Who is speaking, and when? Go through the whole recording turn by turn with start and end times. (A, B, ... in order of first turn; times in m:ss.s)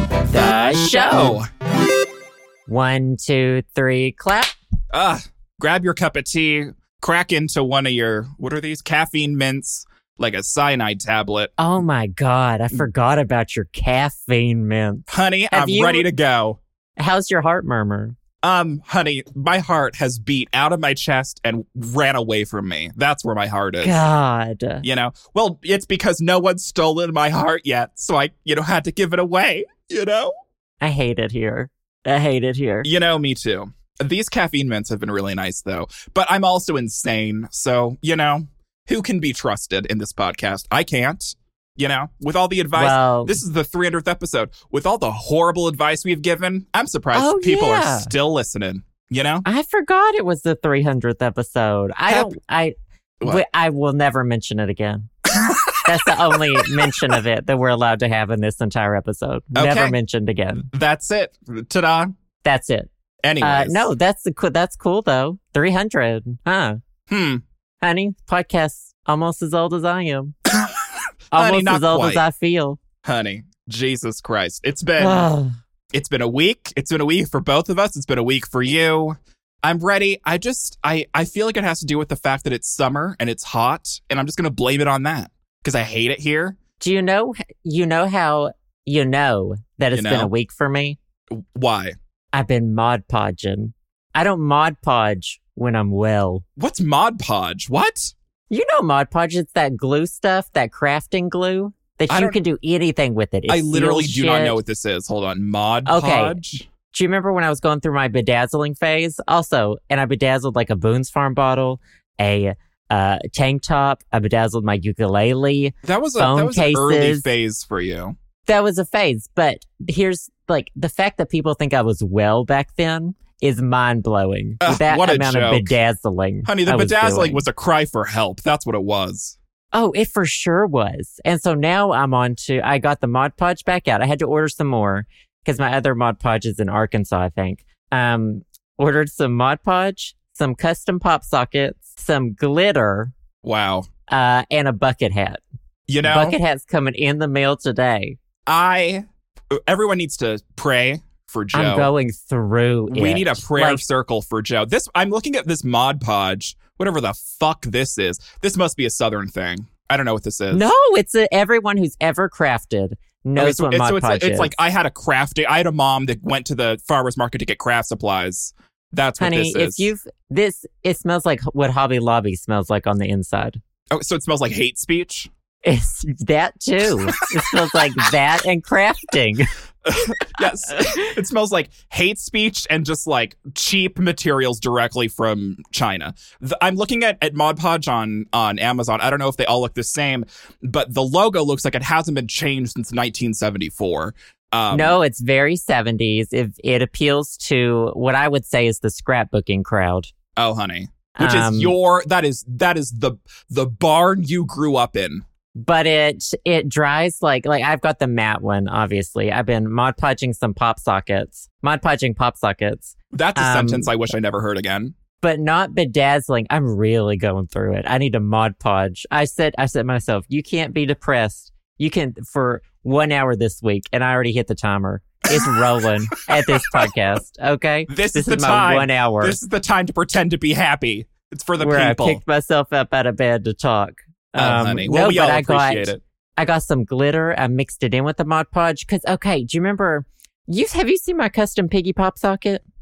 0:00.2-0:01.4 A
0:00.3-0:01.4 B
0:02.7-0:04.6 A
0:04.9-0:11.5 B
0:11.6-0:16.1 A
0:15.1-0:16.6 B
0:17.0-0:18.2 A
0:18.4-0:24.0 B
0:23.8-0:24.8 A
0:24.8-0:30.3 B
0:30.8-0:32.9 A
0:32.8-0:49.4 B
0:42.7-0:43.4 A
0:47.1-0:48.1 A
0:49.4-0:55.1 A
0:52.1-0:52.3 B
0:55.3-0:57.1 B
0:55.8-1:00.6 A
0:59.5-1:00.0 B
1:00.6-1:02.1 B
1:02.4-1:06.8 A
1:03.2-1:03.9 B
1:07.1-1:07.4 B
1:07.8-1:10.3 A
1:10.5-1:12.2 B
1:11.3-1:12.8 A
1:13.0-1:15.2 B
1:15.0-1:15.5 A
1:15.9-1:26.6 B
1:26.8-1:31.0 A
1:29.9-1:30.3 B
1:31.3-1:31.9 B
1:32.3-1:36.4 A
1:36.6-1:38.1 B
1:38.5-1:44.6 A
1:42.1-1:42.4 B
1:43.5-1:46.6 B
1:45.9-1:46.4 A
1:46.9-1:57.3 A
1:55.8-1:58.2 B
1:58.5-2:07.4 A
2:04.6-2:05.7 B
2:06.4-2:09.4 B
2:09.7-2:23.1 A
2:23.4-2:23.9 B
2:24.1-2:25.4 A
2:25.9-2:26.4 B
2:26.0-2:28.2 A
2:28.5-2:31.9 B
2:31.5-2:33.8 A
2:32.9-2:40.7 B
2:40.5-2:44.6 A
2:43.4-2:49.9 B
2:49.2-2:53.6 A
2:53.9-2:55.3 B
2:55.6-2:59.5 A
2:57.1-2:57.8 B
2:59.8-3:15.0 B
3:14.7-3:20.1 A
3:20.4-3:25.2 B
3:21.2-3:21.7 A
3:25.6-3:33.9 A
3:33.1-3:34.9 B
3:35.2-3:49.4 A
3:45.3-3:46.9 B
3:47.9-3:52.2 B
3:51.6-4:02.6 A
3:54.4-3:56.0 B